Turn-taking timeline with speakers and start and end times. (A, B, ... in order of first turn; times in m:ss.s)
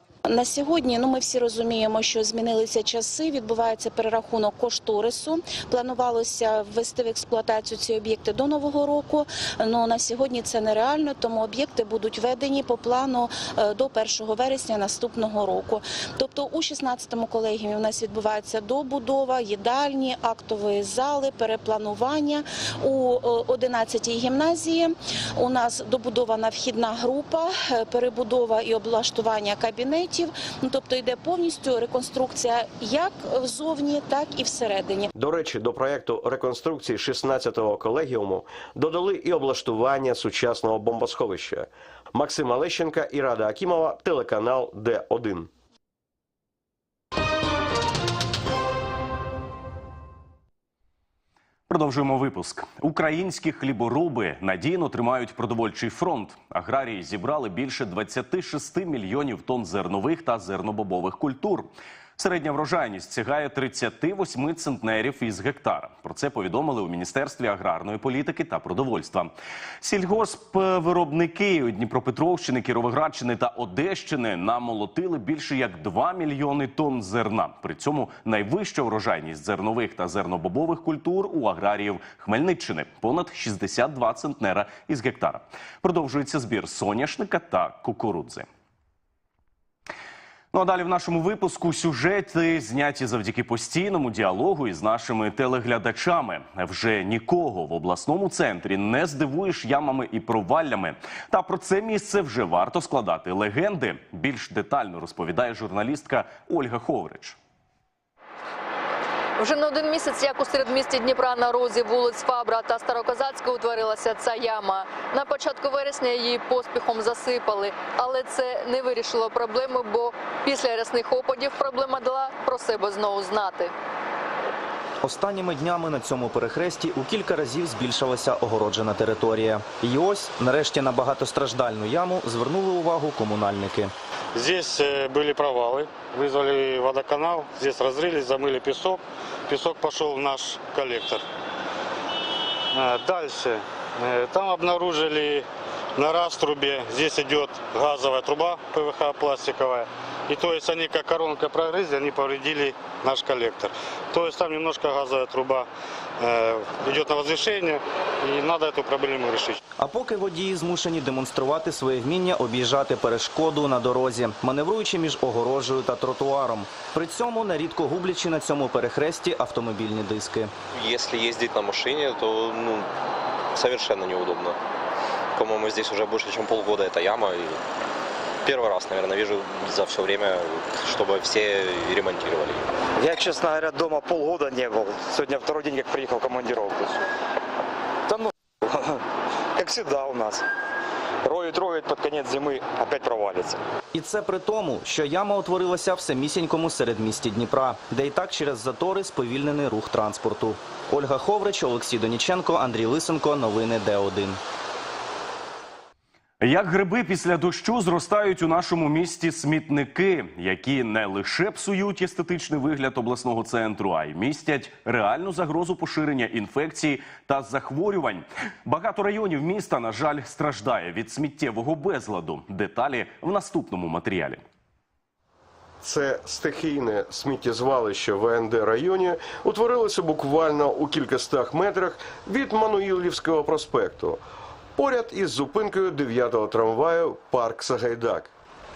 0:00.3-0:35.1 A
0:35.1-0:45.5 B
0:51.7-1:28.5 C
1:30.5-1:47.4 C
1:49.4-2:03.7 D
2:05.0-2:13.9 E
2:14.3-2:21.2 F
2:22.7-2:35.7 F
2:36.2-2:39.6 F
2:39.8-2:50.5 E
2:50.7-2:52.9 G
2:53.5-2:54.6 G
2:55.3-2:57.6 G
2:58.4-3:02.7 G
3:03.0-3:07.0 H
3:08.1-3:09.0 H
3:09.5-3:10.4 H
3:11.2-3:13.6 H
3:13.9-3:24.4 E
3:26.4-3:44.4 C
3:45.8-3:54.2 B
3:54.8-3:58.3 B